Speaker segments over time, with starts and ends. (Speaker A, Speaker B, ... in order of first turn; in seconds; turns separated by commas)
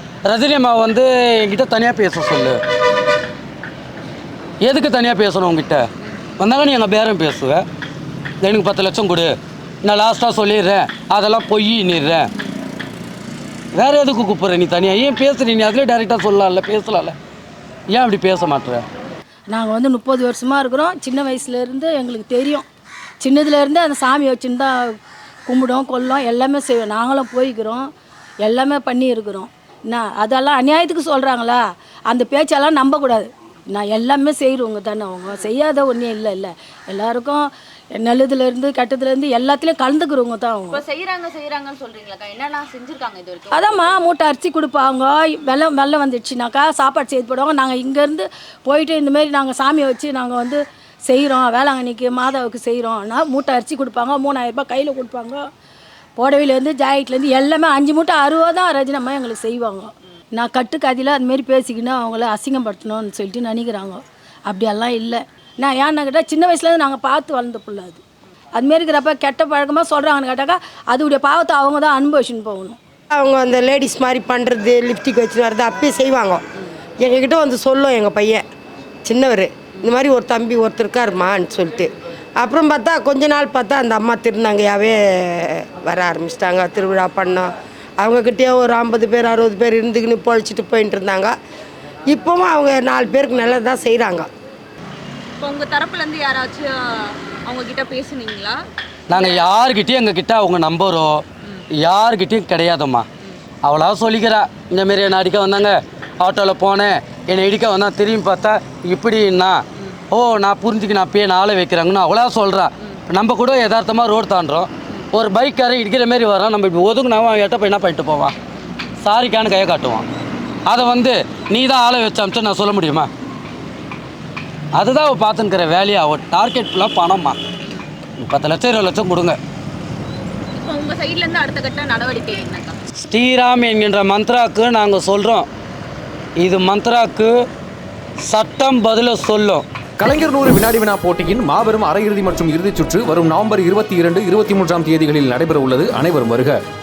Speaker A: 0.3-2.6, Speaker A: 4.6-5.8, Speaker A: 6.4-7.6, Speaker A: 8.4-12.3, Speaker A: 13.7-17.1, Speaker A: 17.9-18.9, Speaker B: 19.5-22.6, Speaker B: 23.2-24.9, Speaker B: 25.5-27.9, Speaker B: 28.4-40.8, Speaker C: 40.7-44.0, Speaker B: 43.5-55.5, Speaker B: 56.2-68.0, Speaker B: 68.5-72.8, Speaker D: 73.2-76.4, Speaker D: 77.0-78.4, Speaker D: 79.1-87.5, Speaker D: 88.0-91.3, Speaker D: 92.1-94.3, Speaker C: 95.4-96.7, Speaker C: 97.5-98.6, Speaker A: 99.1-101.2, Speaker C: 99.1-99.4, Speaker A: 101.8-103.0, Speaker A: 103.6-109.6, Speaker A: 110.1-118.3, Speaker A: 119.0-120.0, Speaker A: 120.7-123.1, Speaker A: 124.8-127.4, Speaker A: 128.2-129.4, Speaker C: 130.6-132.8, Speaker A: 133.0-135.5, Speaker A: 136.4-137.3, Speaker A: 138.3-139.6, Speaker E: 140.0-146.6